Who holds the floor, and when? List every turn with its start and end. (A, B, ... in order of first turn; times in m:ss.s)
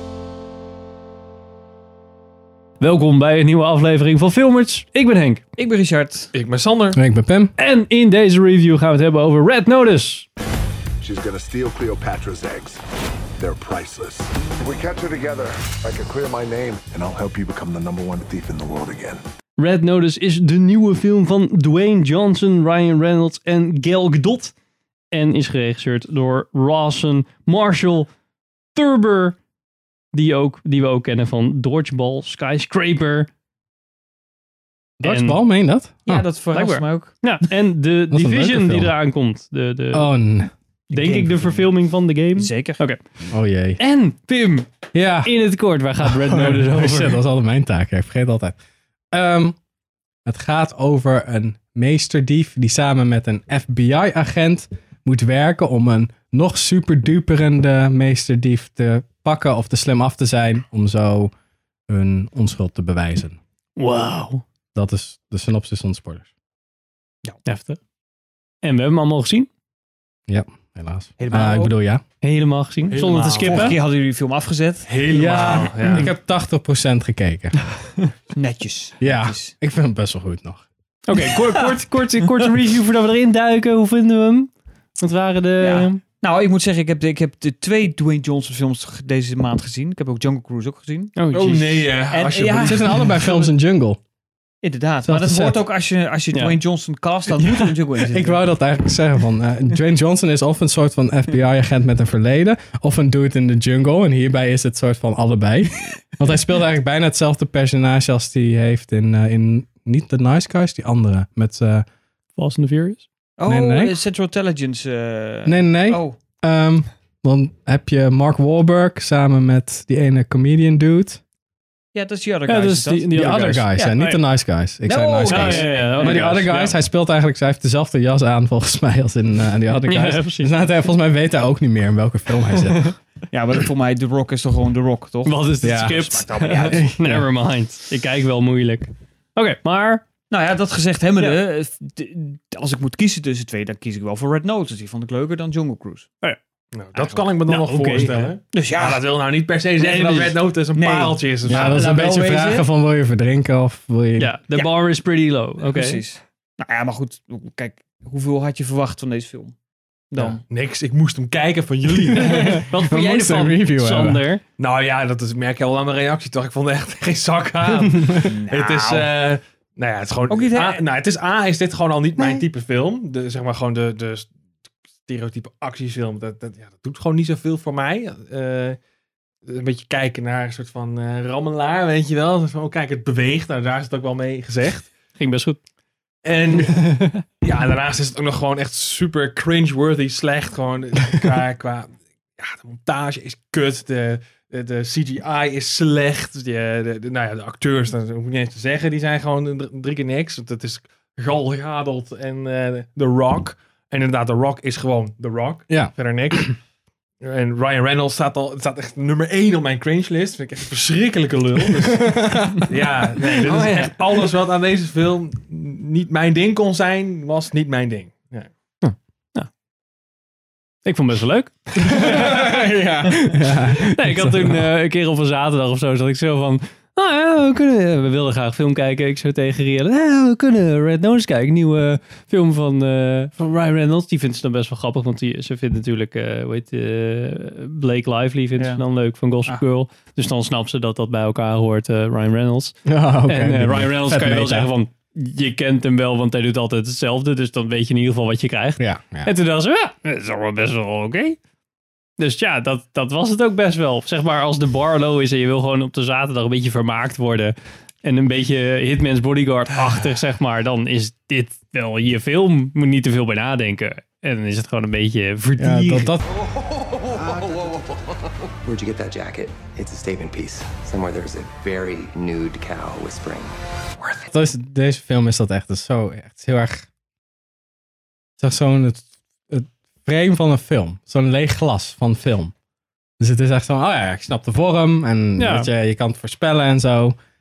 0:02.8-0:05.4 A
0:05.6-0:06.3 B
0:06.3-0:07.0 C
0:06.9-0:07.5 D
0:07.6-0:10.3 A
0:11.0-0:12.8 E
0:13.4-0:19.2 E
0:19.6-0:24.5 A
0:25.1-0:28.1 A
0:28.8-0:29.4 A
0:30.1-0:33.3 A
0:35.0-0:36.2 D
0:35.0-0:35.4 A
0:36.1-0:37.2 B
0:36.5-0:40.1 A
0:38.1-0:39.0 D
0:39.9-0:40.5 D
0:40.9-0:41.7 B
0:40.9-0:43.0 A
0:42.4-0:42.8 B
0:43.3-0:43.8 D
0:43.8-0:44.7 A
0:44.9-0:48.6 D
0:45.2-0:47.2 A
0:49.1-0:49.6 D
0:50.2-1:01.3 D
1:01.9-1:03.4 D
1:03.8-1:04.4 A
1:04.8-1:06.3 D
1:07.5-1:07.8 A
1:08.6-1:09.5 A
1:10.3-1:12.0 D
1:11.2-1:11.7 B
1:12.2-1:13.8 A
1:12.9-1:13.8 C
1:13.1-1:15.7 B
1:14.8-1:16.1 C
1:15.1-1:17.6 D
1:18.3-1:19.5 B
1:19.0-1:20.6 D
1:21.1-1:26.0 A
1:21.1-1:22.5 B
1:25.6-1:31.2 B
1:31.2-1:31.9 A
1:31.3-1:33.4 C
1:32.1-1:33.5 B
1:32.6-1:34.0 D
1:34.6-1:38.4 B
1:35.0-1:35.6 D
1:36.3-1:36.6 A
1:37.4-1:51.8 D
1:52.4-1:53.1 A
1:53.4-1:56.2 B
1:53.4-1:54.0 D
1:55.4-2:01.2 D
2:01.9-2:04.0 B
2:02.5-2:04.2 A
2:03.2-2:13.0 D
2:04.8-2:06.4 B
2:05.3-2:06.8 A
2:09.9-2:10.5 A
2:13.3-2:16.9 B
2:15.2-2:20.0 A
2:15.6-2:17.3 D
2:20.3-2:26.1 B
2:26.7-2:31.8 C
2:26.9-2:27.3 B
2:27.5-2:28.4 A
2:28.5-2:29.0 B
2:29.8-2:32.7 B
2:29.8-2:30.3 A
2:31.4-2:34.3 D
2:34.2-2:36.0 A
2:34.5-2:34.9 B
2:35.6-2:39.6 B
2:40.1-2:40.4 B
2:40.2-2:42.6 C
2:42.2-2:44.2 D
2:42.2-2:44.4 A
2:44.6-2:54.3 C
2:48.2-2:49.2 B
2:50.3-2:50.8 B
2:55.1-2:58.8 C
2:59.5-3:04.9 C
3:05.2-3:05.6 A
3:06.2-3:26.6 C
3:25.7-3:26.5 D
3:27.2-3:38.5 C
3:32.0-3:32.6 D
3:33.4-3:34.3 A
3:38.8-3:39.5 A
3:40.8-3:42.7 A
3:41.8-3:44.6 D
3:43.9-4:02.8 A
3:58.6-3:58.8 B
4:02.9-4:04.7 D
4:03.3-4:11.4 A
4:08.8-4:09.3 D
4:12.2-4:26.2 A
4:25.6-4:26.2 D
4:27.0-4:33.6 F
4:34.3-4:36.9 D
4:38.4-4:42.5 D
4:43.2-4:47.2 D
4:45.4-4:45.7 A